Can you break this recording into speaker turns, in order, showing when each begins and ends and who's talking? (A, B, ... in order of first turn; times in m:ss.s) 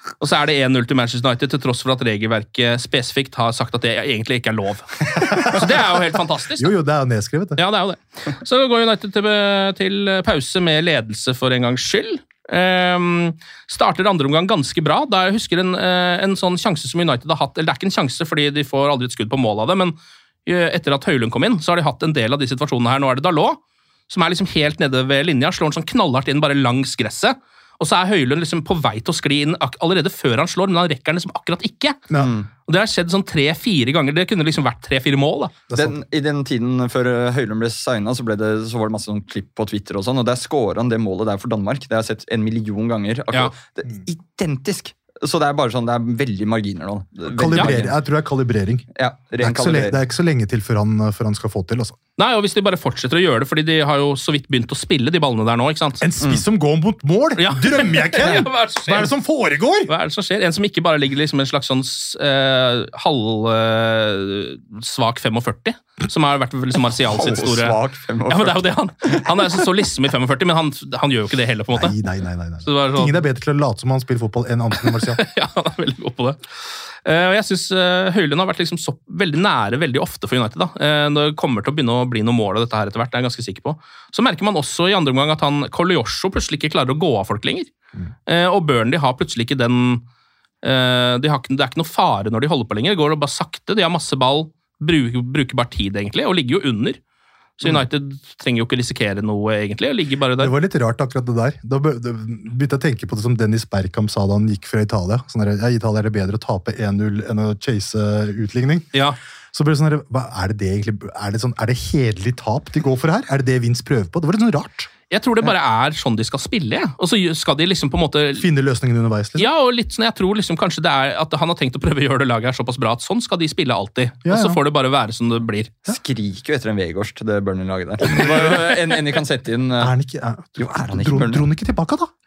0:00.2-0:06.7 A
0:05.2-0:06.0 B
0:06.6-0:07.6 B
0:07.6-0:19.9 A
0:20.4-0:32.0 A
0:32.1-0:32.3 B
0:32.1-0:32.5 C
0:32.6-0:35.5 A
0:35.7-0:36.0 B
0:35.7-0:47.9 C
0:47.3-0:48.9 B
0:49.0-0:50.0 C
0:49.4-0:52.0 B
0:52.2-0:56.0 A
0:56.0-0:59.9 B
0:57.4-0:59.1 A
0:59.9-1:07.8 A
1:07.1-1:09.6 C
1:08.3-1:12.0 A
1:11.7-1:15.2 B
1:12.6-1:13.2 A
1:14.8-1:27.7 A
1:28.3-1:30.0 A
1:30.6-1:37.0 A
1:37.6-1:40.5 A
1:40.4-1:48.9 B
1:48.9-1:49.2 A
1:49.5-1:54.9 B
1:55.1-1:58.5 A
1:58.4-1:59.5 B
1:59.4-2:05.7 A
2:04.2-2:04.6 B
2:05.9-2:09.9 C
2:08.1-2:08.7 B
2:09.8-2:12.1 B
2:10.6-2:11.4 C